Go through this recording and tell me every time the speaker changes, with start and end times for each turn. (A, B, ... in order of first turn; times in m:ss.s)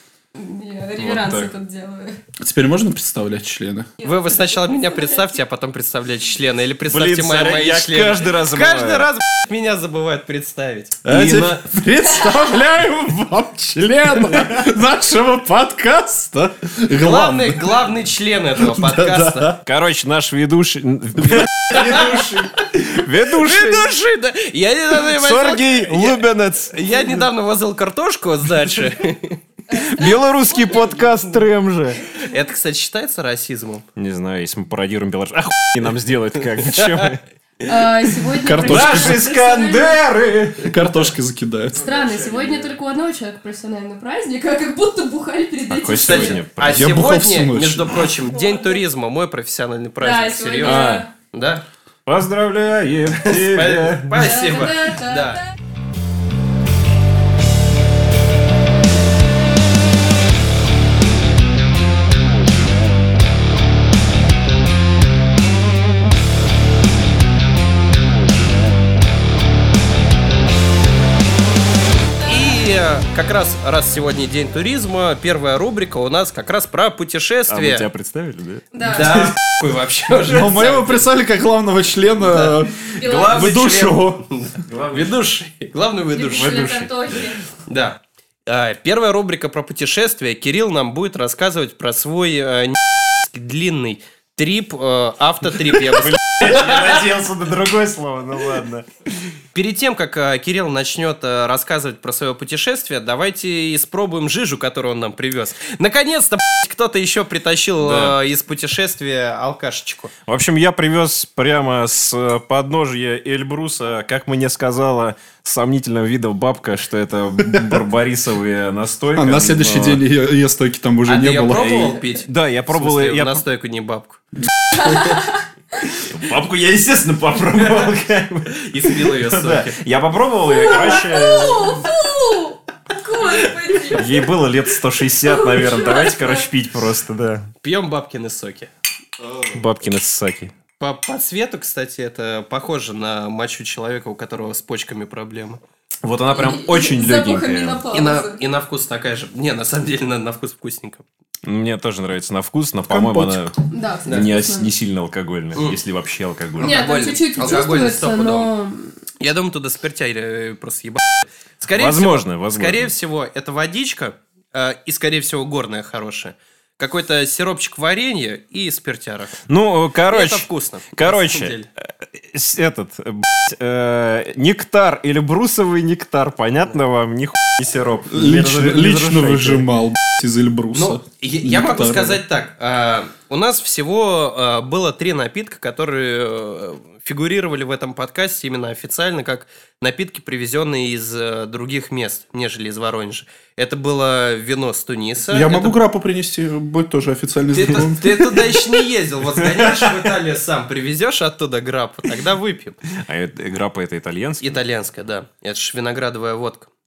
0:00.4-0:02.2 A
0:01.0-0:01.5 B
0:02.4-0:03.9 C
0:04.0-0:04.4 A
0:04.0-0:11.0 D
0:06.8-0:09.1 B
0:11.0-0:17.8 C
0:11.0-0:11.6 B
0:17.0-0:19.5 D
0:18.6-0:19.6 C
0:19.6-0:23.9 B
0:21.3-0:22.2 C
0:21.7-0:22.4 D
0:23.3-0:29.4 D
0:24.9-0:27.3 B
0:29.7-0:32.0 B
0:32.1-0:33.8 D
0:34.0-0:37.2 B
0:36.7-0:37.1 D
0:37.6-0:40.0 A
0:38.4-0:39.2 C
0:38.6-0:40.8 B
0:40.6-0:41.8 C
0:41.7-0:46.4 A
0:41.9-0:42.7 B
0:45.7-0:47.0 B
0:46.0-0:51.6 D
0:46.6-0:48.1 C
0:48.4-0:48.6 A
0:50.0-0:51.1 A
0:50.6-0:51.1 B
0:52.0-0:54.3 B
0:53.2-0:55.4 D
0:54.1-0:55.5 A
1:12.2-1:17.8 D
1:17.5-1:19.4 B
1:18.7-1:19.1 A
1:18.8-1:21.1 D
1:20.2-1:24.2 C
1:22.9-1:23.6 A
1:23.0-1:25.2 B
1:24.2-1:26.8 D
1:26.1-1:27.4 A
1:26.3-1:27.0 B
1:27.6-1:37.1 D
1:35.7-1:39.3 B
1:39.5-1:50.1 D
1:47.8-1:48.2 B
1:50.3-2:00.0 B
1:59.2-2:01.9 C
2:01.0-2:04.2 D
2:01.5-2:03.4 B
2:04.8-2:05.4 A
2:04.8-2:05.1 D
2:05.8-2:11.9 B
2:08.5-2:09.8 D
2:10.4-2:14.3 A
2:13.9-2:17.5 B
2:15.2-2:16.4 A
2:17.6-2:18.7 D
2:19.2-2:19.5 C
2:19.5-2:20.5 B
2:20.8-2:25.6 D
2:26.0-2:27.8 B
2:26.3-2:28.4 A
2:27.9-2:31.0 D
2:31.4-2:33.5 B
2:32.9-2:33.5 C
2:33.7-2:34.7 A
2:34.0-2:37.0 B
2:36.6-2:38.5 D
2:36.6-2:39.0 A
2:39.2-2:49.4 D
2:41.7-2:42.9 B
2:49.5-2:59.7 B
2:50.1-2:51.7 D
2:58.1-3:02.2 C
3:00.7-3:15.7 D
3:15.3-3:18.7 C
3:17.5-3:22.8 D
3:19.4-3:20.1 B
3:22.9-3:24.6 B
3:24.4-3:26.7 D